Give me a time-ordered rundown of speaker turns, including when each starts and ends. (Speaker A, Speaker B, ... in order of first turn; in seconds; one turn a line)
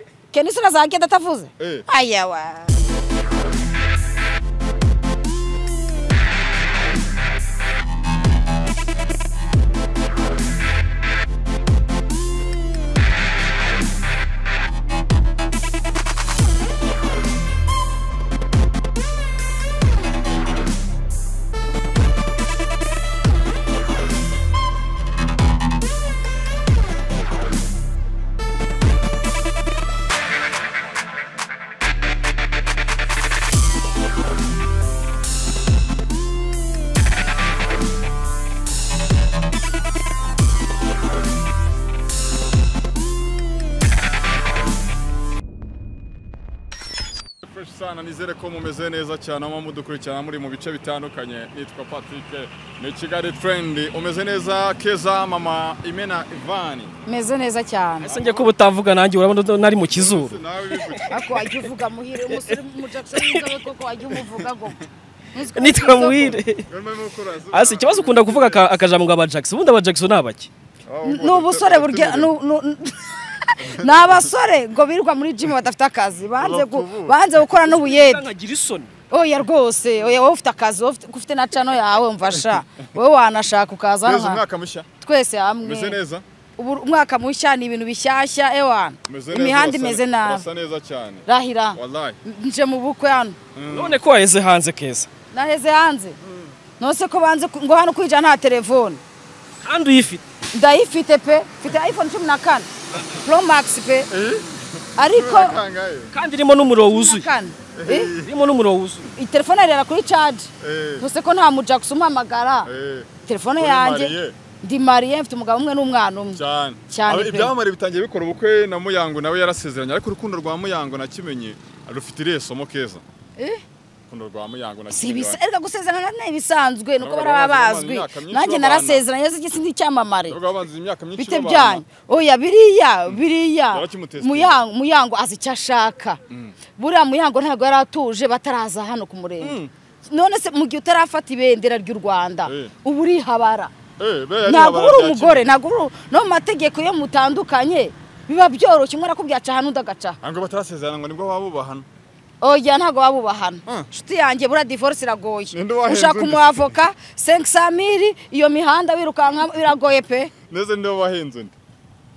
Speaker A: 0.3-2.8
Speaker B: 1.6-1.9
Speaker B: 47.4-56.9
Speaker A: 57.0-58.1
Speaker C: 58.0-61.1
Speaker B: 58.1-58.5
Speaker B: 59.9-61.4
Speaker A: 61.1-64.8
Speaker C: 62.2-63.6
Speaker A: 65.3-66.4
Speaker C: 65.5-66.7
Speaker B: 66.7-68.7
Speaker C: 67.5-70.5
Speaker B: 70.8-72.3
Speaker A: 71.0-78.3
Speaker B: 73.6-74.3
Speaker B: 76.4-77.2
Speaker C: 77.5-78.9
Speaker A: 79.1-84.4
Speaker B: 84.0-84.9
Speaker A: 85.0-86.0
Speaker B: 85.6-86.2
Speaker A: 86.6-90.4
Speaker B: 89.0-92.2
Speaker A: 91.2-93.4
Speaker B: 93.5-94.0
Speaker C: 93.7-95.1
Speaker A: 95.3-96.2
Speaker A: 96.8-99.0
Speaker C: 99.6-100.2
Speaker A: 100.5-104.1
Speaker B: 104.1-106.1
Speaker A: 105.0-105.6
Speaker C: 106.1-107.3
Speaker A: 106.8-108.1
Speaker B: 107.7-108.3
Speaker C: 108.2-109.1
Speaker A: 109.1-112.7
Speaker B: 110.6-111.0
Speaker B: 112.6-114.3
Speaker A: 113.2-117.5
Speaker B: 116.3-123.0
Speaker B: 124.1-125.4
Speaker A: 124.9-130.4
Speaker B: 127.0-129.0
Speaker B: 130.3-131.8
Speaker A: 131.2-136.2
Speaker B: 133.1-134.6
Speaker B: 136.3-136.6
Speaker A: 136.8-143.7
Speaker B: 139.4-139.7
Speaker B: 142.4-142.7
Speaker B: 144.0-145.5
Speaker A: 144.4-150.2
Speaker B: 150.2-151.8
Speaker A: 152.4-160.3
Speaker B: 155.5-156.7
Speaker B: 160.5-161.5